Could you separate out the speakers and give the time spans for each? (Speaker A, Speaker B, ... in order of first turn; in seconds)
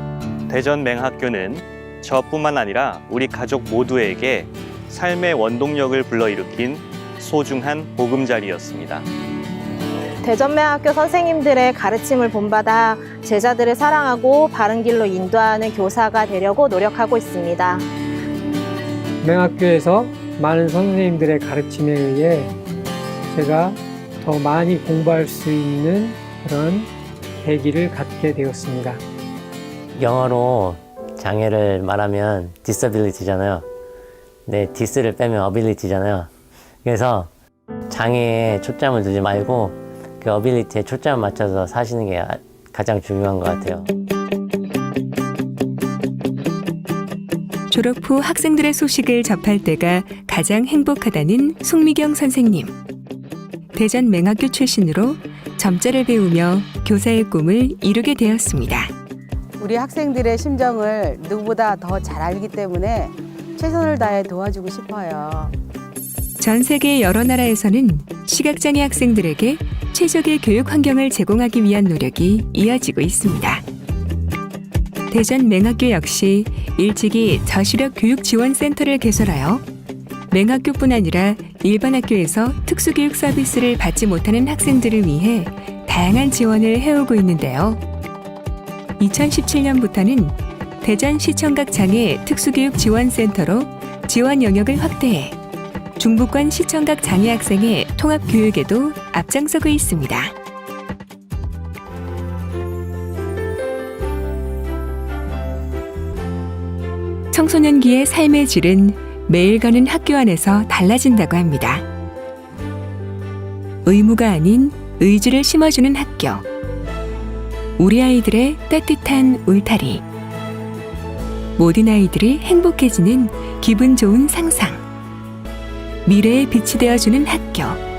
Speaker A: 0.5-9.1
Speaker B: 10.2-17.8
Speaker C: 19.2-22.5, 23.3-29.0
Speaker D: 29.9-33.7, 34.5-36.3, 36.8-37.3, 37.9-43.9
Speaker E: 47.7-52.7, 53.8-58.9, 66.4-73.6, 75.1-79.7, 80.3-87.8, 89.0-95.4, 96.0-100.4, 107.3-111.8, 113.8-116.5, 117.8-120.0, 121.6-124.8, 126.0-127.8
Speaker F: 59.6-65.6